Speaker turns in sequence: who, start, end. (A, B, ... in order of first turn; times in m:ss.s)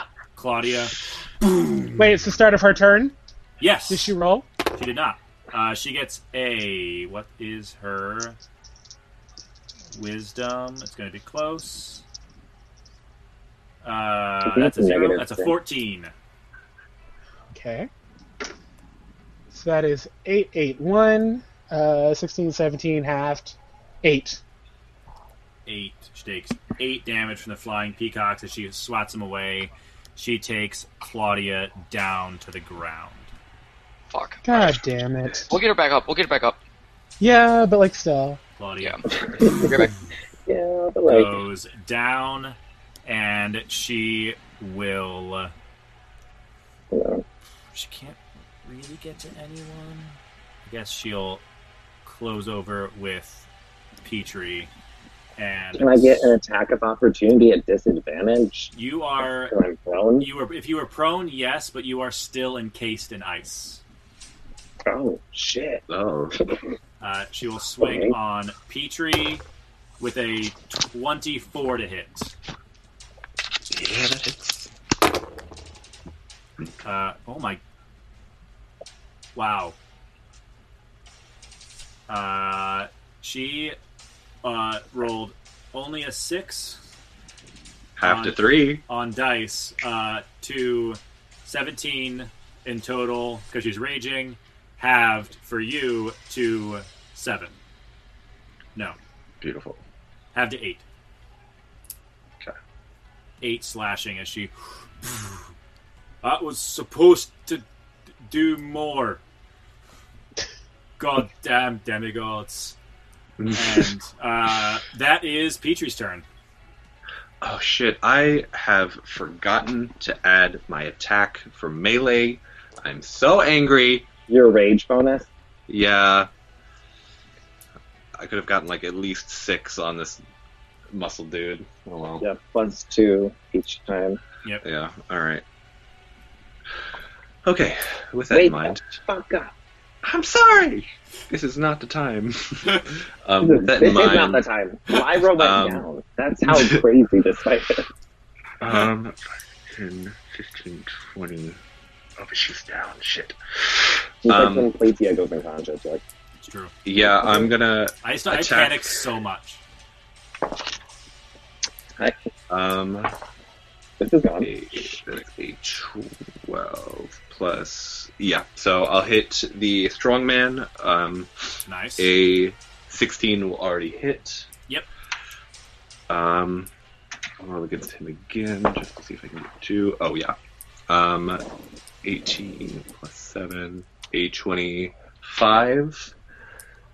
0:00.4-0:02.4 A
0:02.0-0:03.2 B
0:03.6-0:04.2 A
0:03.9-0:04.5 B
0:04.7-0:08.4 A
0:09.9-0:12.0 A
0:13.8-0:16.1 A
0:14.4-0:15.5 C
0:17.5-0:17.9 B
0:19.5-0:24.4 B
0:25.7-0:33.3 A
0:34.1-0:34.8 D
0:34.4-0:35.6 B
0:35.5-0:36.6 D
0:37.2-0:38.4 B
0:38.6-0:39.0 A
0:38.8-0:39.9 D
0:39.4-0:39.9 C
0:40.5-0:41.4 C
0:41.1-0:45.5 A
0:46.9-0:47.2 C
0:47.7-0:51.4 A
0:52.0-0:53.5 A
0:54.0-0:54.7 A
0:55.4-0:56.4 A
0:55.8-0:58.7 C
0:58.7-0:59.6 A
0:59.5-1:00.3 C
1:00.2-1:03.8 A
1:04.9-1:05.8 C
1:05.9-1:06.4 E
1:07.0-1:09.4 A
1:07.8-1:08.2 C
1:10.0-1:12.3 A
1:13.7-1:14.7 E
1:16.8-1:17.6 A
1:19.4-1:19.8 A
1:22.1-1:23.8 A
1:24.4-1:26.8 A
1:28.0-1:28.8 E
1:28.0-1:37.6 A
1:39.4-1:39.8 E
1:40.3-1:40.8 A
1:43.4-1:45.5 A
1:46.2-1:47.6 A
1:48.2-1:49.2 A
1:51.0-1:52.8 A
1:53.4-1:53.9 E
1:53.5-1:56.3 A
1:57.4-2:04.1 E
2:04.3-2:05.3 C
2:05.7-2:06.3 E
2:08.2-2:10.2 E
2:10.9-2:12.3 E
2:12.2-2:14.2 C
2:14.6-2:15.4 E
2:17.4-2:18.9 E
2:18.3-2:19.5 C
2:20.0-2:25.8 E
2:23.4-2:27.9 C
2:26.4-2:26.8 E
2:28.6-2:31.6 E
2:32.2-2:34.7 E
2:34.2-2:36.0 C
2:36.4-2:36.7 A
2:36.8-2:39.0 E
2:37.0-2:37.5 C
2:38.0-2:39.6 A
2:42.5-2:43.2 E
2:44.0-2:44.5 C
2:44.4-2:54.5 E
2:51.7-2:52.1 A
2:56.1-2:56.7 E
2:57.4-3:00.4 E
3:00.9-3:01.4 E
3:02.0-3:06.1 E